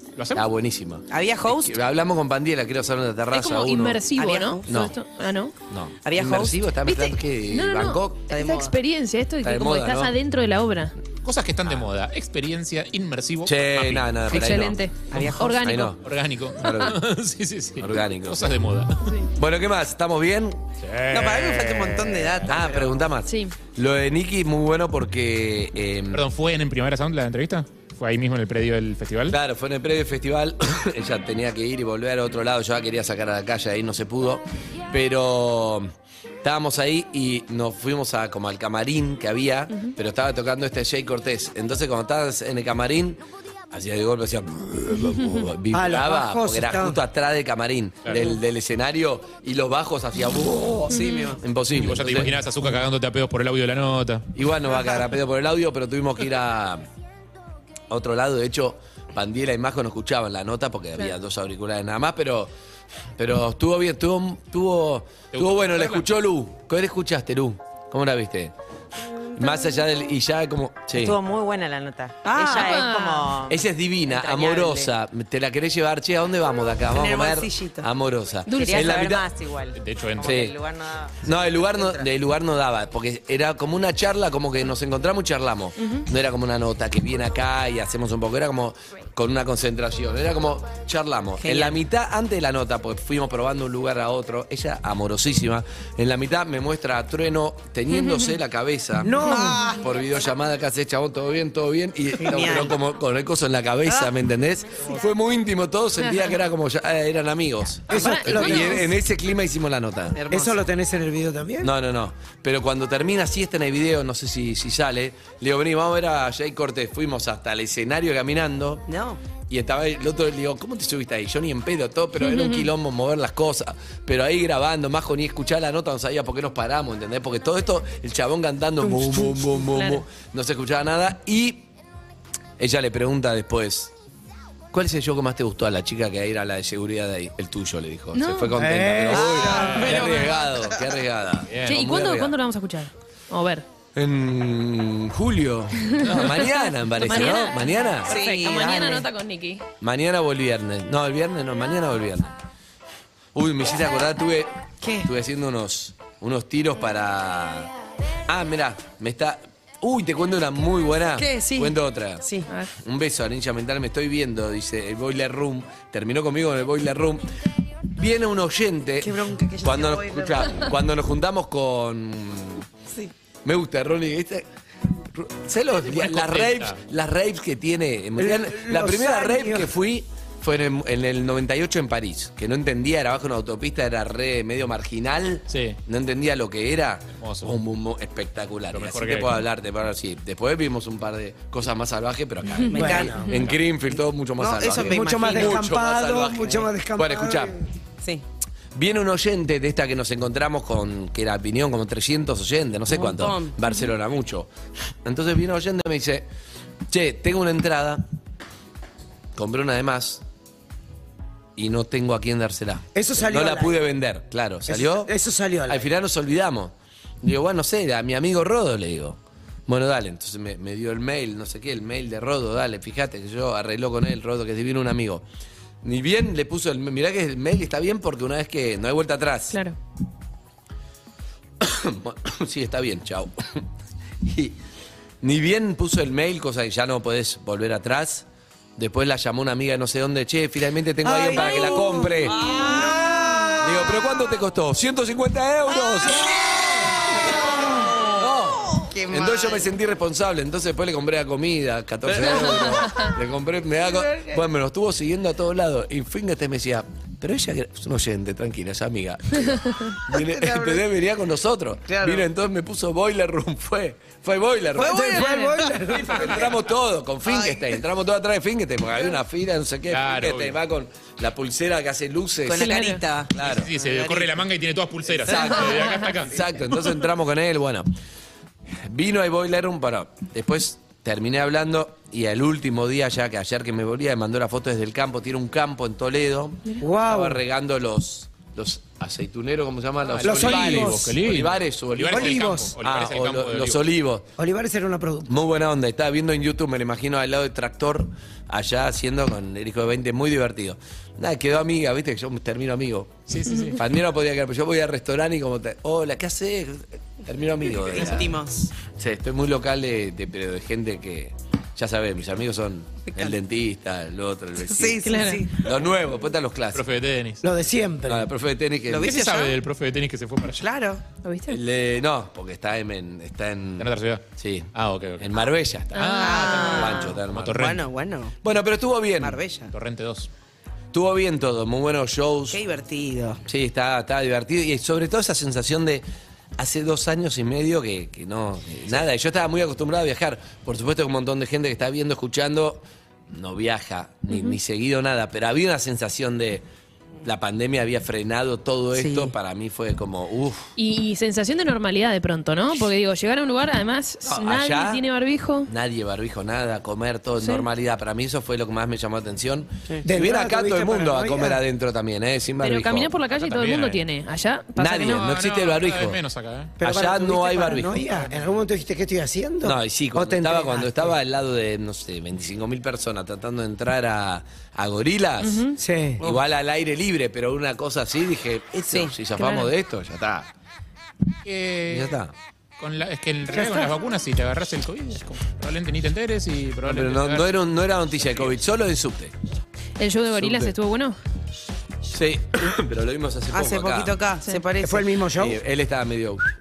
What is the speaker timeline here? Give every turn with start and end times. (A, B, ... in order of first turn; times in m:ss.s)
0:00.2-0:00.4 A
0:00.3-0:04.0 B
0:01.1-0:01.8 C
0:03.3-0:05.5 D
0:04.2-0:04.7 C
0:04.7-0:04.9 B
0:05.7-0:08.2 B
0:06.0-0:06.6 C
0:06.8-0:10.9 D
0:08.3-0:08.7 C
0:09.4-0:10.1 B
0:11.2-0:14.6 A
0:13.4-0:14.8 B
0:14.3-0:15.9 D
0:15.1-0:15.7 C
0:15.5-0:16.0 B
0:15.9-0:19.2 A
0:16.6-0:17.0 B
0:17.8-0:18.6 B
0:19.3-0:20.6 B
0:20.8-0:22.3 A
0:21.1-0:23.1 C
0:22.4-0:26.2 B
0:23.2-0:23.6 D
0:26.1-0:29.4 A
0:29.3-0:35.9 B
0:36.4-0:52.4 B
0:45.7-0:47.0 E
0:50.9-0:51.4 C
0:50.9-0:51.3 D
0:51.7-0:54.2 A
0:54.3-0:56.8 B
0:54.7-0:55.0 C
0:57.9-1:02.5 B
1:03.2-1:08.5 B
1:05.3-1:06.0 A
1:09.3-1:11.2 B
1:10.9-1:14.9 F
1:12.2-1:12.9 C
1:12.5-1:13.3 D
1:13.5-1:19.3 B
1:16.9-1:17.9 C
1:18.5-1:19.0 D
1:18.5-1:22.1 F
1:19.7-1:20.4 A
1:20.2-1:20.6 B
1:21.2-1:39.2 B
1:25.8-1:26.1 D
1:31.4-1:31.8 C
1:37.9-1:38.3 D
1:39.0-1:39.7 E
1:39.2-1:39.9 C
1:39.3-1:39.6 D
1:39.7-1:50.2 B
1:42.2-1:42.8 C
1:46.0-1:46.4 D
1:47.9-1:48.9 E
1:47.9-1:48.9 D
1:50.2-1:50.6 C
1:50.3-1:51.7 E
1:51.6-1:58.9 B
1:58.9-1:59.2 C
1:59.5-2:11.7 B
2:02.2-2:02.7 D
2:08.9-2:09.6 E
2:09.7-2:10.0 D
2:12.6-2:13.9 B
2:14.7-2:22.4 B
2:18.1-2:18.6 D
2:18.6-2:19.9 E
2:19.1-2:20.8 C
2:19.5-2:20.0 A
2:21.5-2:21.8 A
2:21.6-2:23.6 D
2:23.9-2:28.1 B
2:25.9-2:29.6 D
2:26.0-2:26.4 A
2:28.1-2:29.1 C
2:29.8-2:32.4 B
2:33.4-2:37.7 B
2:34.8-2:35.1 C
2:38.3-2:42.3 B
2:41.2-2:42.5 C
2:42.8-2:47.3 B
2:47.9-2:52.6 B
2:49.0-2:50.7 C
2:53.4-2:54.4 B
2:55.1-3:17.6 B
2:55.8-2:56.8 A
2:58.2-2:59.7 E
3:05.5-3:05.8 A
3:07.2-3:07.5 A
3:08.7-3:09.4 A
3:12.6-3:12.9 D
3:12.6-3:13.3 C
3:12.7-3:13.3 E
3:13.3-3:13.6 A
3:14.4-3:15.8 C
3:14.8-3:17.7 E
3:18.7-3:24.5 B
3:22.9-3:23.6 C
3:25.0-3:26.3 B
3:26.9-3:28.0 B
3:29.4-3:30.2 B
3:31.6-3:35.1 B
3:32.9-3:33.8 E
3:34.7-3:35.9 E
3:35.7-3:45.2 B
3:45.8-3:49.6 B
3:49.5-3:49.8 D
3:51.6-3:53.6 B
3:54.2-3:54.6 B
3:55.2-3:58.2 B
3:58.8-4:02.9 B
4:01.0-4:04.0 E
4:02.2-4:03.7 C
4:03.6-4:06.5 B
4:05.9-4:09.7 C
4:08.1-4:25.3 B
4:12.1-4:12.9 C
4:20.3-4:20.8 C
4:21.9-4:22.2 C
4:24.7-4:26.3 E
4:24.8-4:26.4 C
4:25.2-4:25.5 D
4:25.9-4:32.8 B
4:27.2-4:27.8 C
4:29.9-4:30.6 A
4:32.5-4:34.4 C
4:32.6-4:33.0 D
4:33.3-4:33.7 B
4:33.4-4:36.7 A
4:35.2-4:37.9 B
4:38.8-4:54.2 B
4:46.8-4:47.4 E
4:50.1-4:53.8 A
4:50.2-4:51.2 E
4:52.1-4:52.7 E
4:54.4-4:55.3 E
4:55.3-5:03.2 B
5:03.3-5:03.8 A
5:03.8-5:08.3 B
5:07.6-5:08.7 C
5:08.9-5:16.9 B
5:13.1-5:13.4 C
5:14.6-5:15.8 C
5:15.0-5:15.4 D
5:16.7-5:17.4 A
5:17.4-5:18.3 E
5:18.1-5:19.1 B
5:18.9-5:19.6 C
5:19.0-5:20.6 A
5:20.4-5:21.0 C
5:21.2-5:21.6 D
5:21.5-5:27.6 B
5:23.8-5:25.3 A
5:25.9-5:27.8 A
5:25.9-5:27.1 D
5:26.2-5:28.4 C
5:28.4-5:29.4 B
5:29.2-5:29.7 C
5:29.7-5:30.3 A
5:30.9-5:32.6 B
5:32.5-5:33.4 C
5:33.4-5:36.0 B
5:36.6-5:46.6 B
5:44.3-5:44.6 D
5:47.2-5:50.7 B
5:48.9-5:49.3 C
5:50.8-5:55.7 D
5:54.3-5:55.0 B
5:55.7-6:03.1 B
5:57.4-5:57.6 D
6:00.0-6:01.6 E
6:02.6-6:05.2 D
6:03.2-6:04.0 A
6:04.8-6:06.2 B
6:05.0-6:06.7 A
6:06.8-6:11.2 E
6:06.8-6:08.1 B
6:09.6-6:15.7 B
6:15.4-6:15.8 D
6:15.8-6:16.2 E
6:16.2-6:20.5 B
6:18.8-6:19.1 C
6:19.4-6:19.7 D
6:21.4-6:22.2 A
6:21.9-6:22.3 B
6:22.8-6:27.5 A
6:23.5-6:23.9 E
6:26.8-6:29.3 B
6:28.3-6:28.5 A
6:30.0-6:31.2 D
6:30.4-6:30.7 B
6:32.1-6:34.2 B
6:33.5-6:35.2 C
6:34.8-6:35.6 E
6:35.4-6:36.5 B